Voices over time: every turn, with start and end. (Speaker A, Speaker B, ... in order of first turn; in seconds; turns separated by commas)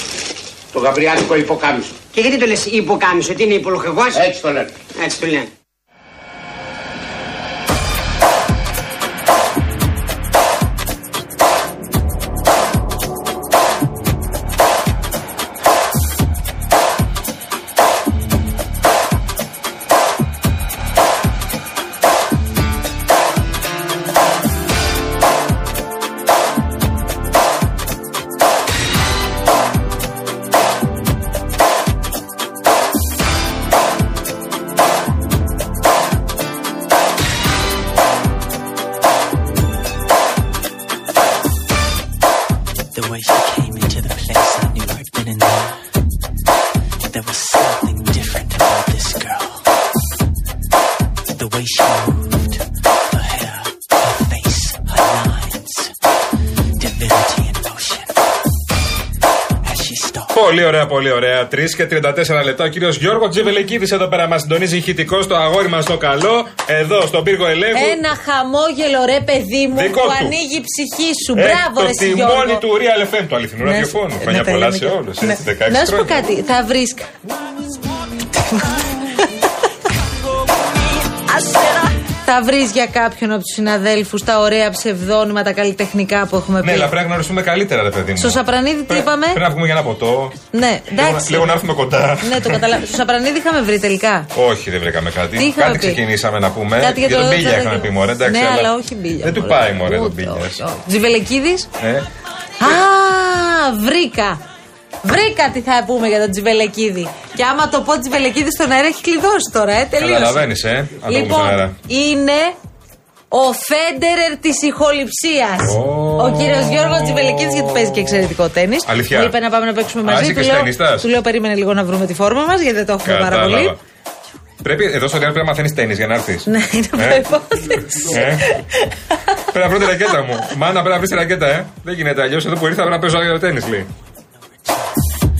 Speaker A: 0.7-2.0, Speaker B: 2.1-4.3, Speaker A: 4.1-4.9, Speaker B: 5.0-5.5, Speaker C: 42.9-45.8, Speaker C: 47.1-49.6, Speaker C: 51.4-55.9, Speaker C: 56.8-58.1, Speaker C: 59.6-60.3, Speaker D: 60.3-68.0, Speaker E: 67.7-72.6, Speaker D: 69.7-70.4, Speaker D: 71.3-76.2, Speaker E: 73.6-77.1, Speaker E: 78.3-79.4, Speaker E: 82.2-86.9, Speaker D: 86.6-90.3, Speaker E: 88.2-89.4, Speaker E: 90.5-91.7, Speaker D: 90.9-92.6, Speaker E: 92.2-94.3, Speaker D: 94.3-100.6, Speaker E: 95.3-96.0, Speaker E: 96.8-101.7, Speaker D: 101.8-102.1, Speaker E: 102.6-104.4, Speaker E: 105.0-110.5, Speaker D: 110.0-111.8, Speaker E: 111.0-112.5, Speaker E: 113.3-123.7, Speaker D: 115.6-118.2, Speaker D: 118.8-119.3, Speaker D: 120.0-121.1, Speaker D: 123.0-123.8, Speaker D: 124.6-127.2, Speaker E: 126.5-128.9, Speaker D: 128.0-128.5, Speaker D: 129.5-133.9